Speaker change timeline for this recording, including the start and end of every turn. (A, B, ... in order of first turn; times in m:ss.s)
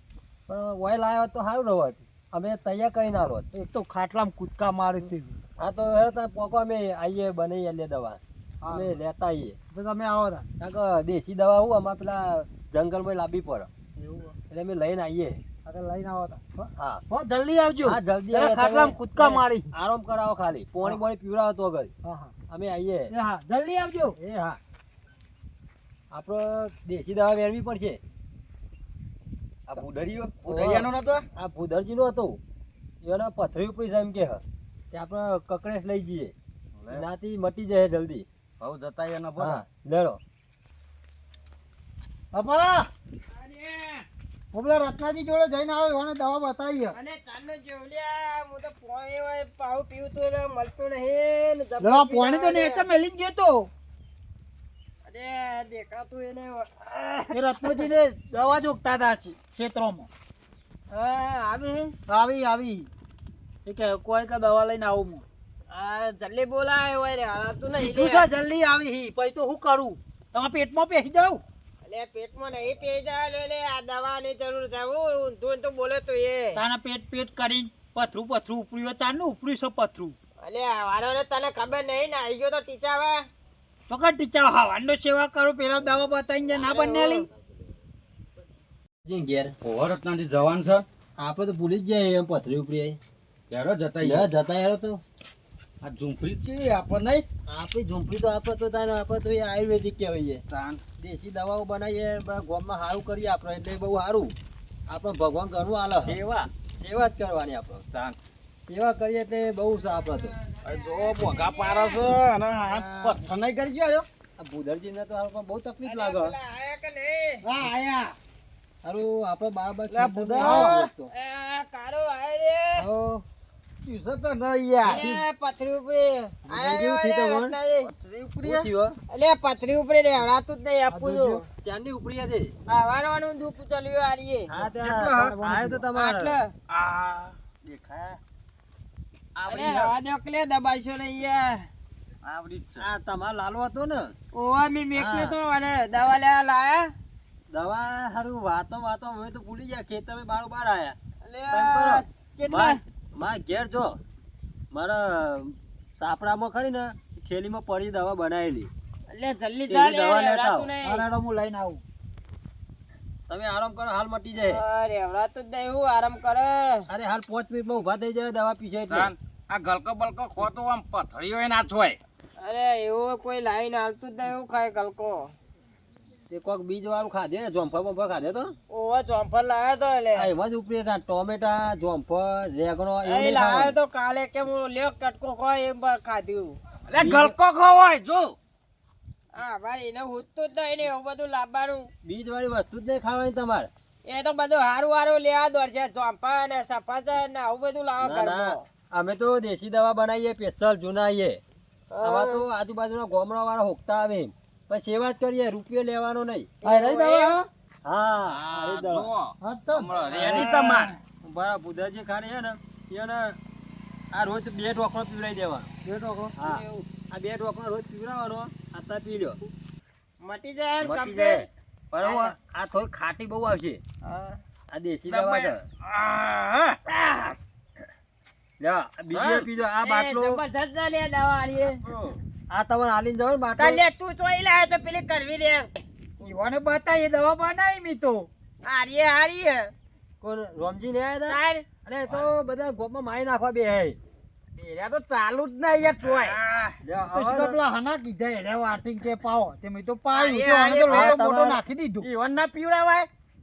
0:00.5-0:03.5 A
0:03.5-0:05.4 B
0:05.6-0:09.6 A
0:08.6-0:09.0 B
0:09.7-0:10.4 B
0:10.6-0:13.7 A
0:14.0-0:14.4 B
0:14.5-0:15.4 A
0:15.6-0:16.4 B
0:16.6-0:17.0 A
0:17.1-0:19.7 B
0:17.8-0:21.9 A
0:22.0-0:22.3 B
0:22.5-0:23.1 A
0:23.1-0:24.2 B
0:24.2-0:24.6 A
0:26.1-0:28.0 A
0:29.7-0:31.2 C
0:30.4-0:32.4 A
0:33.0-0:36.3 A
0:36.8-0:37.0 C
0:36.9-0:38.3 A
0:38.6-0:39.6 C
0:39.4-0:40.2 A
0:42.3-0:42.9 B
0:43.3-0:44.0 D
0:44.5-0:46.9 B
0:46.9-0:52.8 D
0:51.8-0:53.7 B
0:55.0-0:57.8 D
0:57.3-1:00.1 B
1:00.9-1:01.9 D
1:02.1-1:02.9 B
1:03.6-1:05.2 B
1:05.7-1:08.3 D
1:07.8-1:11.4 B
1:11.8-1:16.6 D
1:16.5-1:20.2 B
1:20.4-1:23.2 D
1:23.9-1:27.2 B
1:26.5-1:27.2 D
1:29.0-1:29.6 A
1:29.6-1:30.8 C
1:31.2-1:33.0 A
1:33.5-1:34.3 C
1:34.0-1:35.0 A
1:35.8-1:37.2 C
1:37.5-1:40.4 A
1:40.5-1:40.8 C
1:41.0-1:44.3 A
1:44.9-1:47.8 A
1:45.9-1:46.5 C
1:47.8-1:48.2 C
1:48.6-1:50.3 A
1:50.6-1:52.1 D
1:50.6-1:54.1 C
1:52.6-1:53.3 A
1:54.4-1:56.3 A
1:55.8-1:57.4 D
1:57.4-1:58.2 B
1:58.8-2:01.1 A
1:59.9-2:00.9 C
2:00.4-2:00.9 B
2:01.1-2:02.9 D
2:02.8-2:03.2 A
2:03.8-2:05.0 C
2:04.8-2:07.9 D
2:04.8-2:05.2 A
2:06.5-2:07.6 A
2:07.8-2:08.7 C
2:08.4-2:09.0 A
2:09.1-2:11.4 D
2:10.9-2:11.4 B
2:11.6-2:12.5 A
2:12.7-2:14.5 D
2:14.5-2:16.4 A
2:14.6-2:15.5 C
2:15.9-2:16.5 D
2:16.7-2:18.2 C
2:19.3-2:19.9 C
2:19.5-2:21.7 D
2:22.2-2:22.9 C
2:22.8-2:24.1 A
2:24.3-2:26.9 D
2:24.9-2:25.4 A
2:27.5-2:31.0 A
2:31.2-2:32.8 D
2:31.5-2:34.0 A
2:34.7-2:38.7 A
2:39.1-2:41.0 D
2:39.7-2:40.7 A
2:40.8-2:41.8 B
2:43.3-2:44.6 A
2:44.3-2:46.8 D
2:46.9-2:49.1 A
2:48.9-2:52.0 C
2:52.4-2:55.3 D
2:56.3-2:58.5 A
2:58.7-3:00.3 D
3:00.1-3:03.8 A
3:03.0-3:06.6 D
3:06.9-3:08.4 C
3:07.0-3:07.4 A
3:09.3-3:11.9 D
3:12.0-3:13.7 A
3:14.0-3:18.6 D
3:18.0-3:21.4 A
3:21.9-3:22.4 D
3:22.0-3:26.5 A
3:26.6-3:27.4 D
3:26.6-3:27.5 B
3:27.8-3:29.1 A
3:28.2-3:31.0 C
3:29.4-3:30.8 B
3:30.0-3:30.8 D
3:30.2-3:30.5 A
3:31.2-3:33.4 A
3:34.1-3:35.7 A
3:35.8-3:36.3 B
3:36.4-3:39.4 A
3:36.4-3:36.8 D
3:40.2-3:41.5 D
3:40.8-3:43.8 A
3:42.0-3:42.3 D
3:44.0-3:44.4 D
3:44.7-3:45.6 A
3:45.1-3:47.2 C
3:48.6-3:50.4 A
3:49.1-3:49.5 C
3:49.8-3:51.8 D
3:51.8-3:52.2 C
3:52.5-3:53.8 A
3:53.6-3:55.7 D
3:56.2-3:58.3 B
3:58.6-3:59.7 D
4:00.2-4:04.0 A
4:01.3-4:01.6 D
4:04.6-4:06.4 C
4:06.0-4:06.7 D
4:06.8-4:07.6 A
4:07.1-4:12.1 B
4:10.1-4:11.2 D
4:10.9-4:11.6 A
4:12.0-4:13.1 C